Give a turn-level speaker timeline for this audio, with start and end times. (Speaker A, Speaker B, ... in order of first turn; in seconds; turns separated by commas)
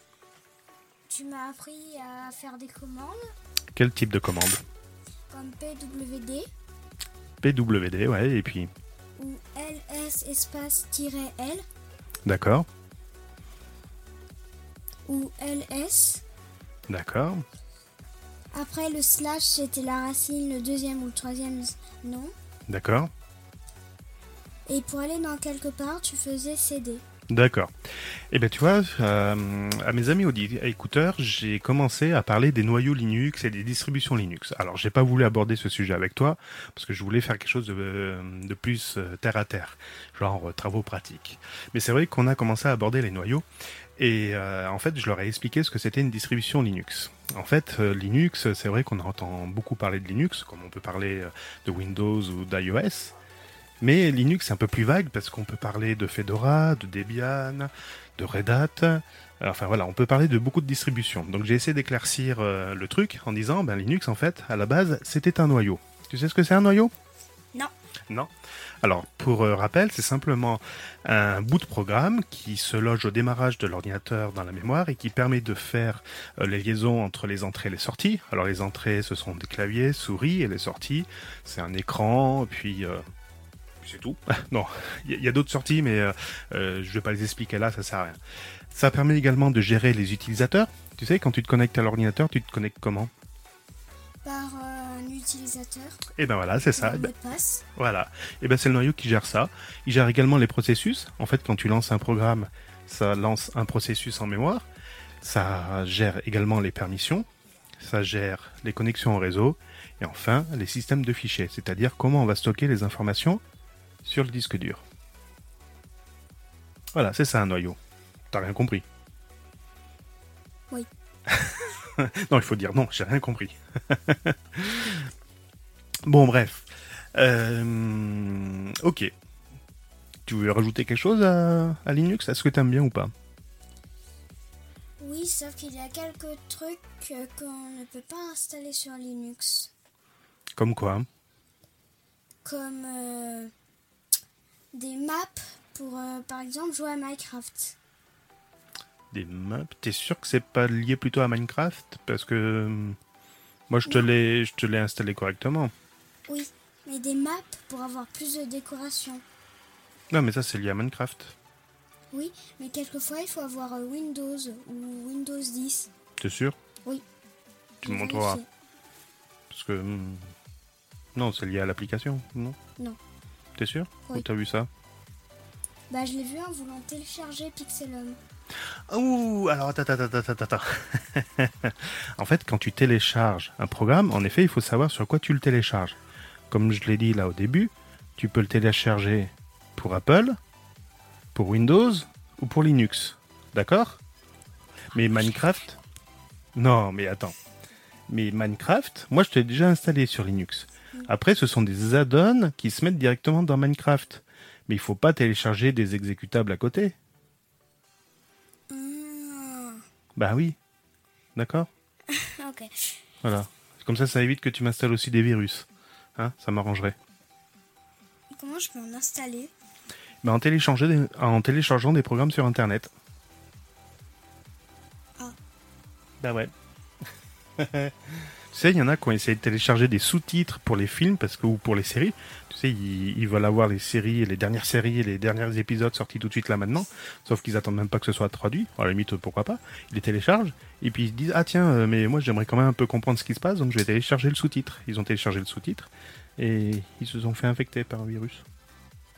Speaker A: 1.1-3.2, Speaker B: 3.7-4.6, Speaker A: 5.3-6.5, Speaker B: 7.4-8.7, Speaker A: 9.2-11.6, Speaker B: 12.2-12.7, Speaker A: 15.1-16.2, Speaker B: 16.9-17.4, Speaker A: 18.5-22.3, Speaker B: 22.7-23.1, Speaker A: 24.7-27.0, Speaker B: 27.3-27.7, Speaker B: 28.3-43.5, Speaker B: 44.0-53.1, Speaker B: 53.8-66.9, Speaker B: 68.8-83.0, Speaker B: 83.8-88.2, Speaker B: 88.7-93.1, Speaker A: 94.2-96.0, Speaker B: 96.2-97.1, Speaker A: 96.6-97.6, Speaker B: 97.8-104.7, Speaker B: 105.2-107.3, Speaker B: 107.8-113.4, Speaker B: 114.0-114.8, Speaker B: 116.9-117.8, Speaker B: 118.3-118.8, Speaker B: 121.3-125.1, Speaker B: 126.0-129.1, Speaker B: 130.2-133.1, Speaker A: 135.0-139.7, Speaker B: 140.6-141.1, Speaker A: 142.4-143.5, Speaker A: 144.7-147.8, Speaker B: 149.1-153.0, Speaker B: 153.7-155.7, Speaker A: 156.3-159.2, Speaker B: 160.1-161.3, Speaker A: 162.1-165.9, Speaker B: 166.2-166.6, Speaker B: 167.8-168.4, Speaker A: 167.8-168.5, Speaker B: 169.5-170.3, Speaker B: 171.1-172.6, Speaker B: 173.6-174.7, Speaker A: 175.9-178.2, Speaker B: 178.9-186.0, Speaker B: 186.5-190.4, Speaker B: 191.3-194.0, Speaker B: 194.9-195.8, Speaker B: 196.6-197.3, Speaker B: 198.1-206.9, Speaker A: 208.7-209.8, Speaker B: 210.2-210.6, Speaker B: 211.3-211.7, Speaker A: 212.1-212.9, Speaker B: 213.2-216.9, Speaker A: 218.3-219.5, Speaker B: 220.2-222.9, Speaker B: 226.2-226.5, Speaker B: 227.6-227.9, Speaker B: 228.5-248.4